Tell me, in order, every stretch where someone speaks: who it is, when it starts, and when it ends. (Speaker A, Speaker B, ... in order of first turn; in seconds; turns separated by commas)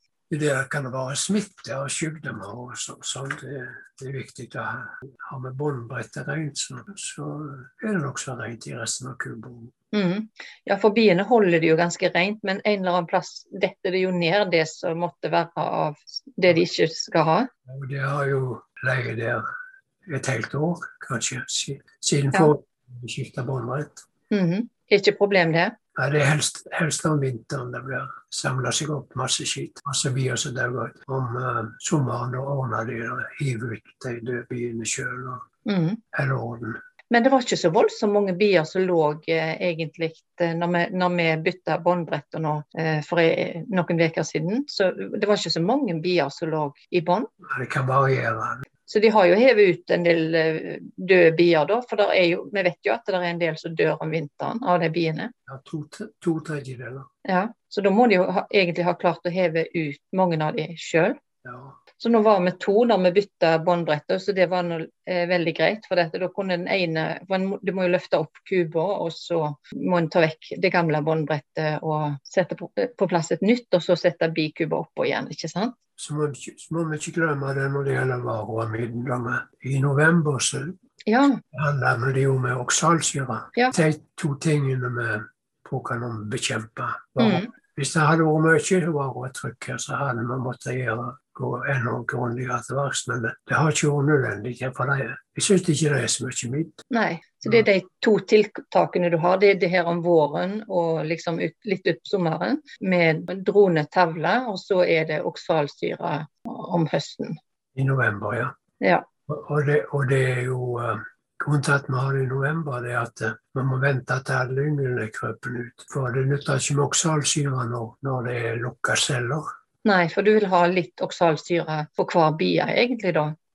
Speaker A: 0.3-9.7, Speaker B: 9.9-17.5, Speaker A: 17.7-19.4, Speaker A: 20.1-24.1, Speaker B: 24.3-25.8, Speaker A: 26.0-35.4, Speaker B: 35.6-36.0, Speaker A: 36.1-36.8, Speaker B: 37.1-47.3, Speaker A: 47.5-48.6, Speaker B: 48.9-55.3, Speaker A: 55.5-57.1, Speaker B: 57.2-61.2, Speaker A: 61.4-61.8, Speaker B: 62.0-75.7, Speaker A: 76.0-80.7, Speaker B: 81.1-81.4, Speaker A: 81.5-96.8, Speaker B: 87.2-87.5, Speaker B: 96.9-107.4, Speaker A: 107.8-108.5, Speaker B: 108.8-109.1, Speaker A: 109.3-119.4, Speaker B: 119.8-123.3